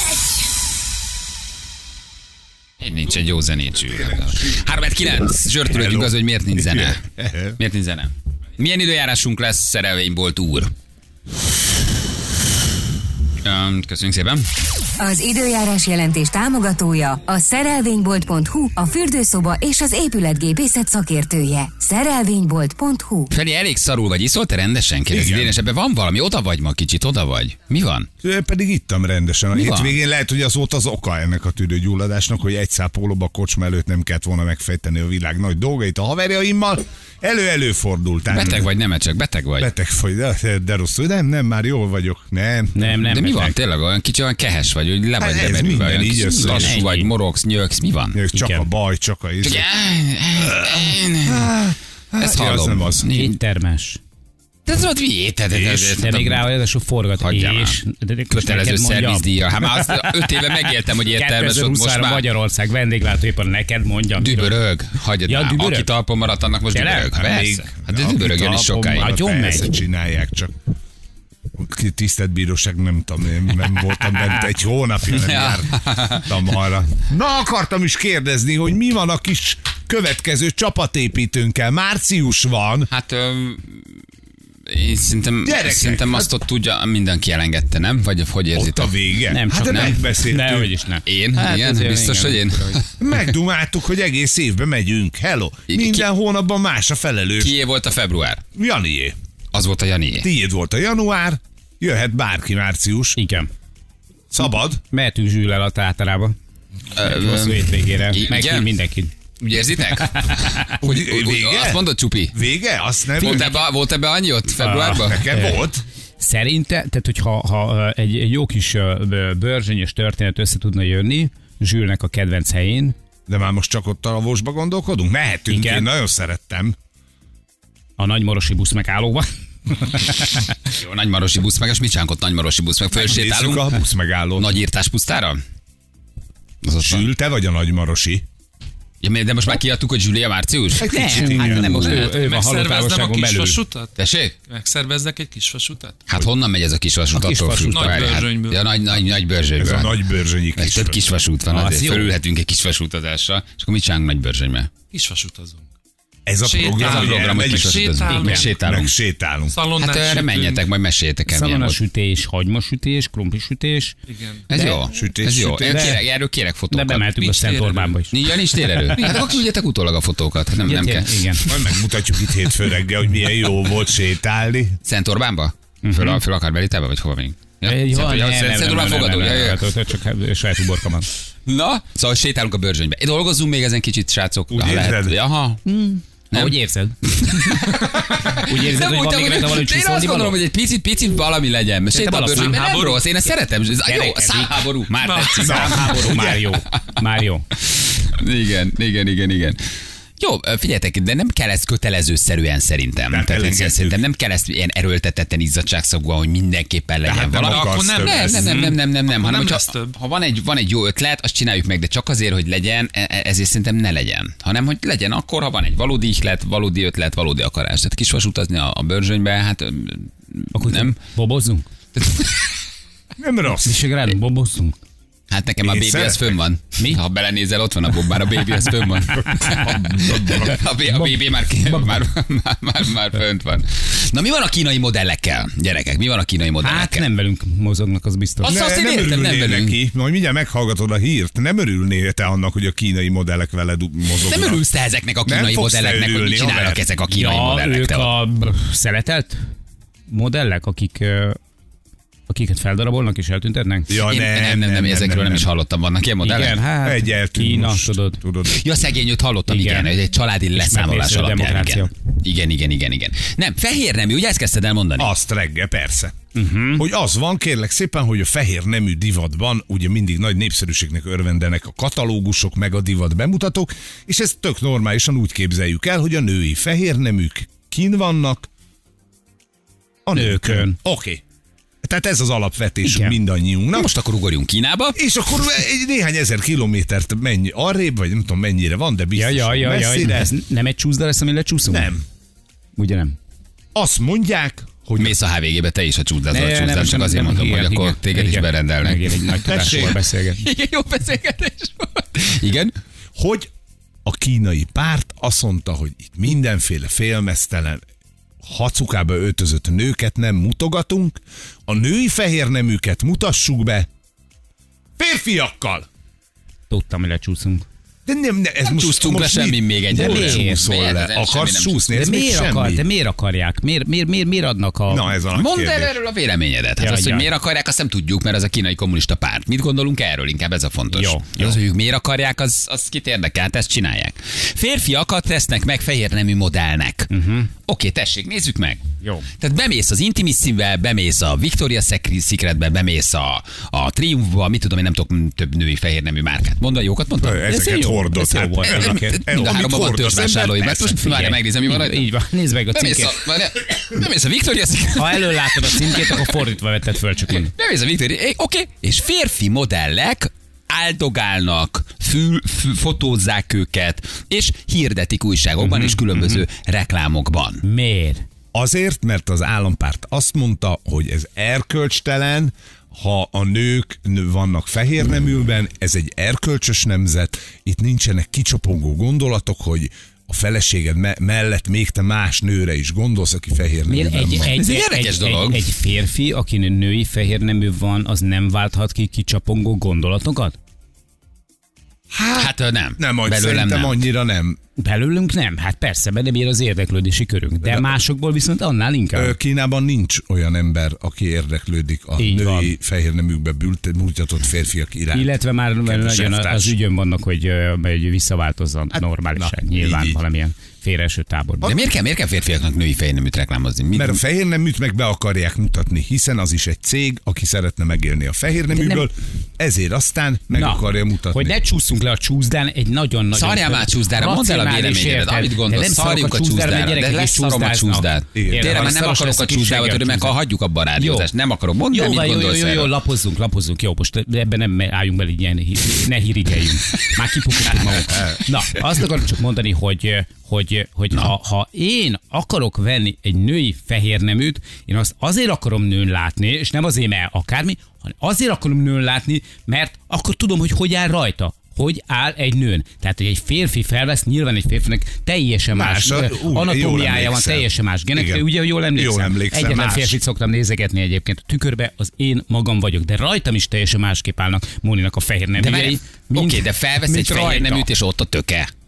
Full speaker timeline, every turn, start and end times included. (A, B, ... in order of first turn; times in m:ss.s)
0:02.8-0:07.0 A
0:05.6-0:07.6 B
0:07.6-0:10.7 A
0:13.4-0:14.4 A
0:15.0-0:23.3 C
0:23.3-0:28.1 A
0:25.1-0:25.6 B
0:28.2-0:38.7 B
0:29.5-0:30.0 A
0:38.3-0:39.7 A
0:39.6-0:42.7 B
0:42.7-0:43.6 D
0:42.9-0:48.2 A
0:45.2-0:46.8 B
0:46.2-0:47.1 D
0:48.1-0:49.6 B
0:48.3-0:48.7 D
0:49.4-0:51.5 A
0:50.4-0:53.0 B
0:52.2-0:53.3 A
0:53.1-0:54.0 D
0:54.6-0:56.5 A
0:55.5-0:56.1 B
0:56.0-1:04.6 D
0:57.2-0:57.8 A
0:58.3-1:02.2 A
1:04.2-1:09.1 A
1:05.3-1:05.9 D
1:06.7-1:07.1 D
1:07.1-1:10.5 B
1:08.6-1:09.7 D
1:11.6-1:22.9 B
1:15.1-1:16.6 A
1:22.9-1:23.9 A
1:24.7-1:29.0 A
1:25.4-1:26.3 B
1:28.5-1:30.7 B
1:29.3-1:32.8 D
1:29.5-1:30.0 A
1:31.0-1:33.2 A
1:33.0-1:37.6 B
1:35.7-1:36.0 A
1:37.4-1:38.4 A
1:38.5-1:39.2 B
1:39.5-1:40.3 A
1:40.2-1:43.2 B
1:43.1-1:43.5 D
1:44.3-1:44.8 B
1:44.9-1:46.4 D
1:47.0-1:48.7 A
1:47.0-1:49.1 D
1:49.4-1:52.4 A
1:50.8-1:53.5 B
1:53.2-1:55.2 A
1:53.2-1:53.5 D
1:54.6-1:55.6 D
1:54.9-1:55.8 B
1:56.2-2:02.9 D
2:03.3-2:06.7 B
2:05.5-2:05.9 D
2:08.0-2:10.5 D
2:10.8-2:13.8 A
2:12.9-2:14.6 B
2:14.4-2:15.4 A
2:16.6-2:17.1 A
2:16.8-2:18.2 B
2:19.0-2:22.2 A
2:20.8-2:21.9 B
2:20.8-2:23.6 D
2:21.8-2:23.9 E
2:24.0-2:24.3 A
2:24.5-2:26.0 E
2:26.1-2:30.0 A
2:27.1-2:28.3 D
2:27.6-2:28.8 E
2:29.6-2:32.1 B
2:30.5-2:34.7 A
2:34.9-2:35.6 E
2:36.2-2:37.9 B
2:36.4-2:38.6 E
2:36.8-2:38.9 A
2:38.0-2:38.5 D
2:38.6-2:39.6 B
2:39.5-2:40.7 E
2:39.8-2:41.8 A
2:41.3-2:43.9 D
2:44.1-2:44.4 E
2:44.5-2:47.4 A
2:44.5-2:44.9 D
2:44.9-2:46.0 B
2:45.6-2:46.0 D
2:46.7-2:49.3 D
2:47.2-2:48.0 E
2:48.1-2:51.6 A
2:49.0-2:49.3 E
2:50.6-2:51.4 D
2:51.4-2:54.8 B
2:54.8-2:59.6 A
2:55.8-2:56.2 D
2:57.6-3:01.1 D
3:01.4-3:05.6 A
3:04.5-3:05.2 B
3:05.6-3:10.4 D
3:07.1-3:16.0 A
3:11.9-3:13.1 D
3:12.5-3:13.0 E
3:13.8-3:14.7 D
3:15.0-3:15.5 E
3:15.4-3:16.4 B
3:15.4-3:17.4 D
3:18.0-3:19.6 A
3:20.2-3:41.0 A
3:23.1-3:24.0 B
3:27.0-3:28.5 B
3:27.5-3:30.0 E
3:40.5-3:41.7 D
3:42.0-3:42.5 A
3:43.2-3:43.8 B
3:43.6-3:44.8 D
3:45.3-3:57.0 A
3:45.6-3:46.3 B
3:49.5-3:50.6 B
3:56.6-3:58.6 D
3:58.4-3:59.8 A
3:58.4-4:04.6 B
4:04.2-4:08.1 A
4:05.2-4:06.8 B
4:07.1-4:09.4 D
4:10.1-4:11.4 D
4:12.3-4:14.0 D
4:13.9-4:15.5 B
4:13.9-4:16.6 A
4:16.2-4:18.2 D
4:16.8-4:18.6 B
4:18.5-4:25.1 A
4:19.5-4:19.9 D
4:20.5-4:21.9 D
4:25.0-4:26.1 B
4:26.3-4:26.8 D
4:26.8-4:38.5 B
4:40.0-4:41.2 B
4:40.1-4:40.8 D
4:41.8-4:43.9 B
4:42.8-4:43.2 D
4:43.7-4:45.0 A
4:44.9-4:50.3 B
4:49.1-4:52.0 D
4:51.7-4:52.0 B
4:52.8-4:53.2 D
4:53.7-4:55.2 B
4:55.0-5:02.7 A
4:56.3-5:00.4 D
4:59.4-5:00.0 B
5:03.2-5:03.5 B
5:04.0-5:07.8 B
5:08.4-5:13.9 B
5:15.0-5:15.8 B
5:16.7-5:17.6 D
5:18.0-5:22.8 B
5:18.6-5:21.9 A
5:19.9-5:20.6 D
5:21.9-5:25.1 D
5:24.9-5:26.0 B
5:25.3-5:37.1 A
5:26.8-5:27.3 D
5:30.9-5:31.6 D
5:37.1-5:37.5 D
5:37.7-5:38.8 A
5:39.0-5:39.3 D
5:39.4-5:47.4 A
5:47.2-5:51.0 B
5:47.4-5:49.6 D
5:48.7-5:52.1 A
5:50.9-5:53.2 D
5:52.7-5:56.4 A
5:54.9-5:57.5 D
5:57.3-6:07.6 A
6:05.6-6:06.4 D
6:07.6-6:08.2 D
6:08.5-6:24.5 B
6:23.9-6:30.6 D
6:24.5-6:25.6 A
6:32.1-6:34.6 B
6:32.4-6:34.0 A
6:34.8-6:39.3 D
6:37.6-6:38.0 B
6:39.1-6:45.3 B
6:42.2-6:42.7 D
6:45.1-6:51.7 D
6:45.8-6:46.7 B
6:49.3-6:50.2 B
6:51.6-6:51.9 B
6:51.6-6:54.2 A
6:53.9-7:01.6 B
6:58.7-6:59.1 D
7:00.5-7:10.4 D
7:03.3-7:12.9 A
7:08.3-7:09.0 B
7:11.0-7:11.3 D
7:11.9-7:47.9 D
7:35.7-7:40.2 B
7:45.6-7:48.7 A